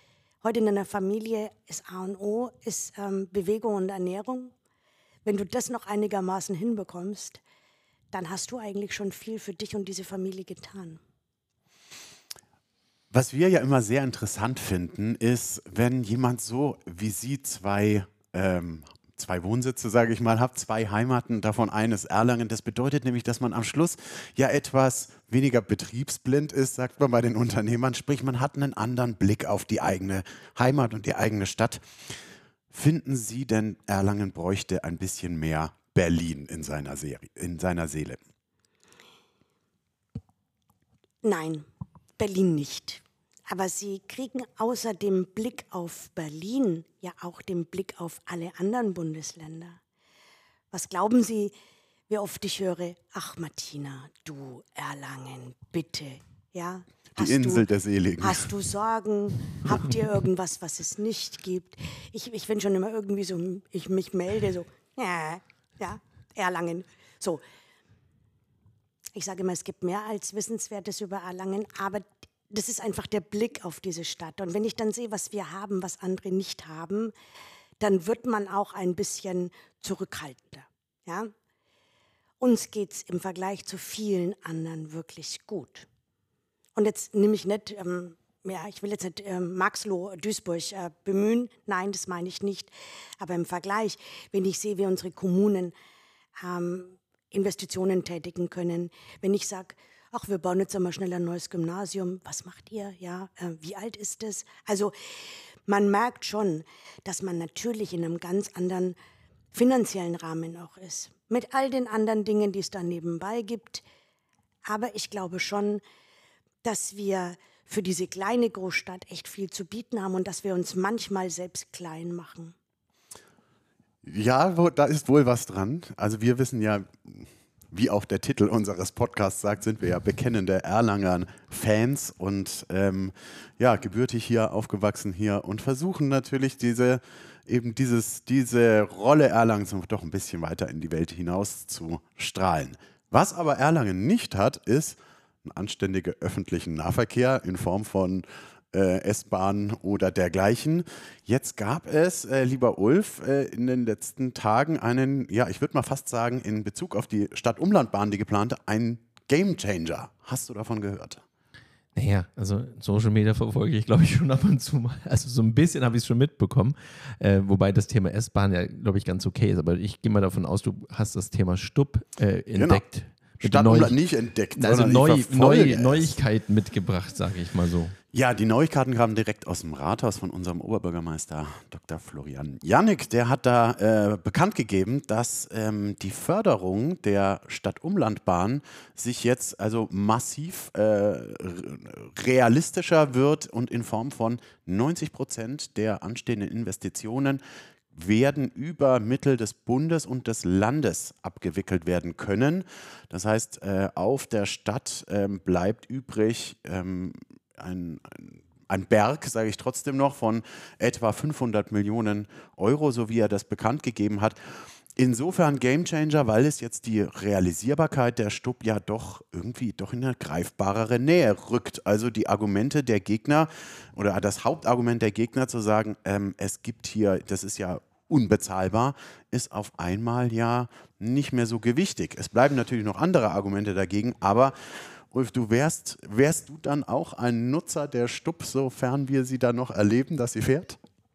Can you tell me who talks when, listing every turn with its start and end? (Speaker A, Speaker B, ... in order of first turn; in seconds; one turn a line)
Speaker A: 0.4-4.5
Speaker A: 5.2-7.4
Speaker A: 8.1-11.0
Speaker B: 13.1-32.1
Speaker B: 32.7-38.2
Speaker A: 41.2-41.7
Speaker A: 42.2-49.8
Speaker A: 50.7-51.5
Speaker A: 52.1-57.7
Speaker B: 57.2-58.5
Speaker A: 58.2-67.4
Speaker A: 69.2-77.1
Speaker A: 77.8-81.3
Speaker A: 82.4-85.9
Speaker A: 86.8-95.7
Speaker A: 96.4-109.0
Speaker A: 109.5-113.8
Speaker A: 114.7-115.8
Speaker A: 116.6-122.5
Speaker B: 124.0-161.2
Speaker C: 161.9-174.0
Speaker B: 172.5-172.8
Speaker B: 173.4-176.2
Speaker C: 174.6-177.9
Speaker B: 178.1-197.4
Speaker B: 197.9-240.8